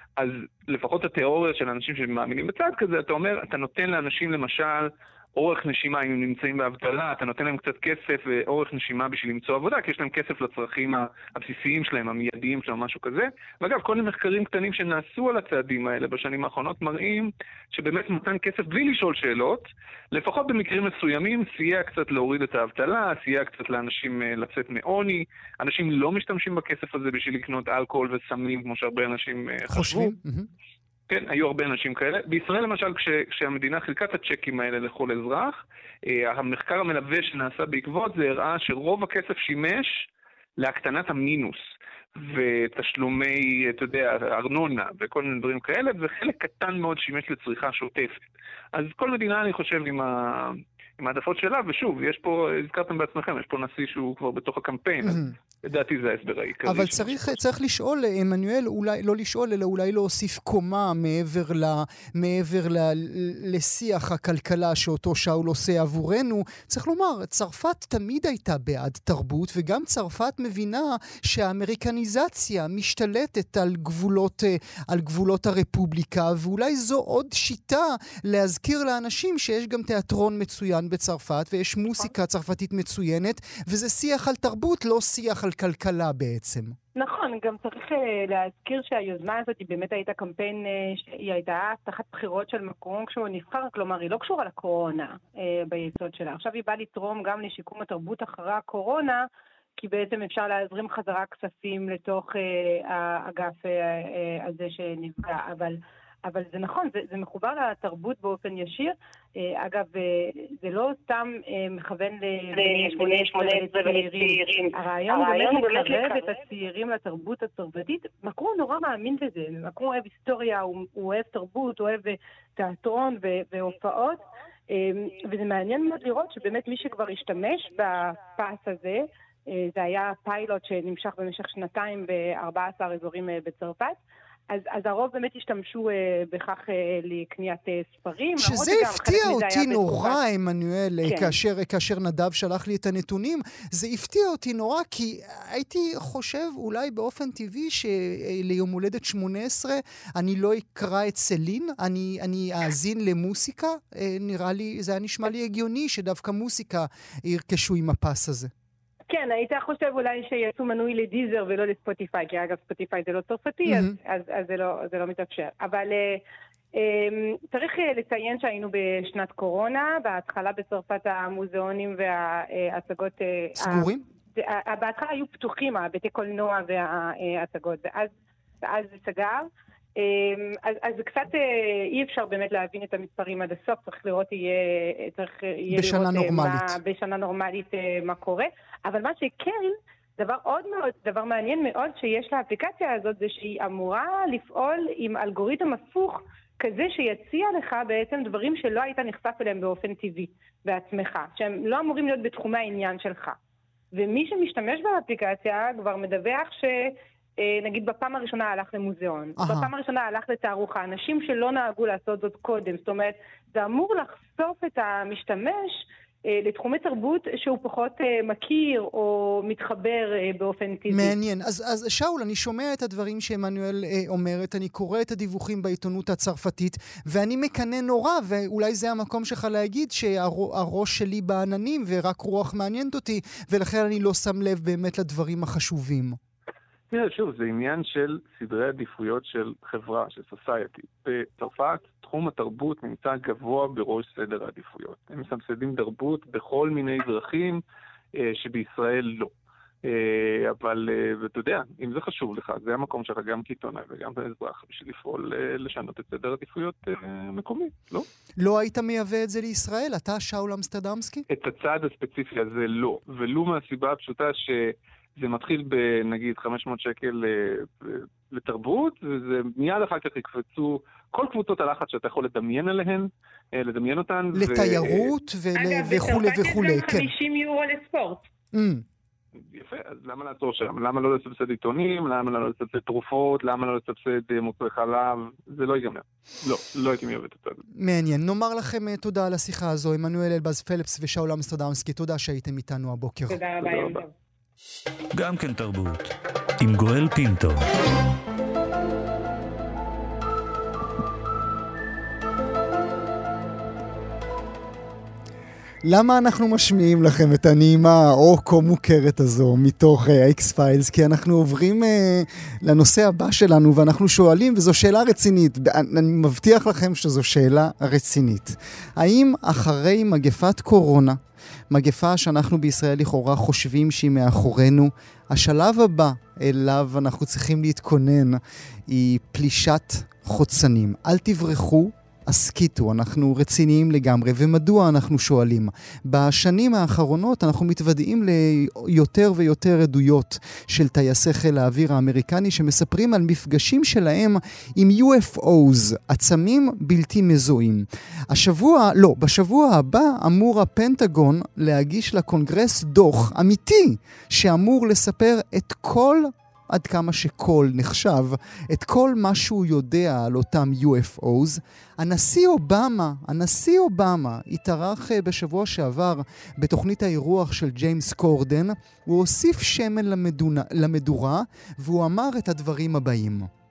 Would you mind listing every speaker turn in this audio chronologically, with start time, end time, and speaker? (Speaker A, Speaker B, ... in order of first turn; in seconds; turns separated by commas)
Speaker A: 0.2-30.1, Speaker B: 29.7-30.5, Speaker A: 31.1-40.1, Speaker A: 40.6-41.6, Speaker A: 42.1-48.2, Speaker A: 48.7-57.4, Speaker B: 55.0-55.3, Speaker B: 56.6-86.8, Speaker C: 87.0-99.2, Speaker C: 99.8-134.0, Speaker C: 134.5-140.2, Speaker B: 138.4-158.5, Speaker C: 141.0-141.3, Speaker C: 159.1-166.2, Speaker B: 163.6-163.9, Speaker C: 166.8-178.1, Speaker B: 173.6-174.0, Speaker C: 178.6-203.4, Speaker B: 185.7-186.8, Speaker C: 203.9-221.1, Speaker B: 209.4-209.7, Speaker B: 220.9-236.2, Speaker A: 236.9-247.6, Speaker A: 248.1-249.3, Speaker A: 249.8-258.1, Speaker B: 258.4-261.2, Speaker A: 261.3-275.1, Speaker B: 274.3-277.1, Speaker C: 275.7-278.2, Speaker B: 278.5-278.8, Speaker A: 279.4-287.6, Speaker B: 287.8-293.4, Speaker C: 293.3-294.1, Speaker A: 293.6-294.0, Speaker D: 295.1-297.7, Speaker B: 305.9-321.2, Speaker B: 321.7-373.5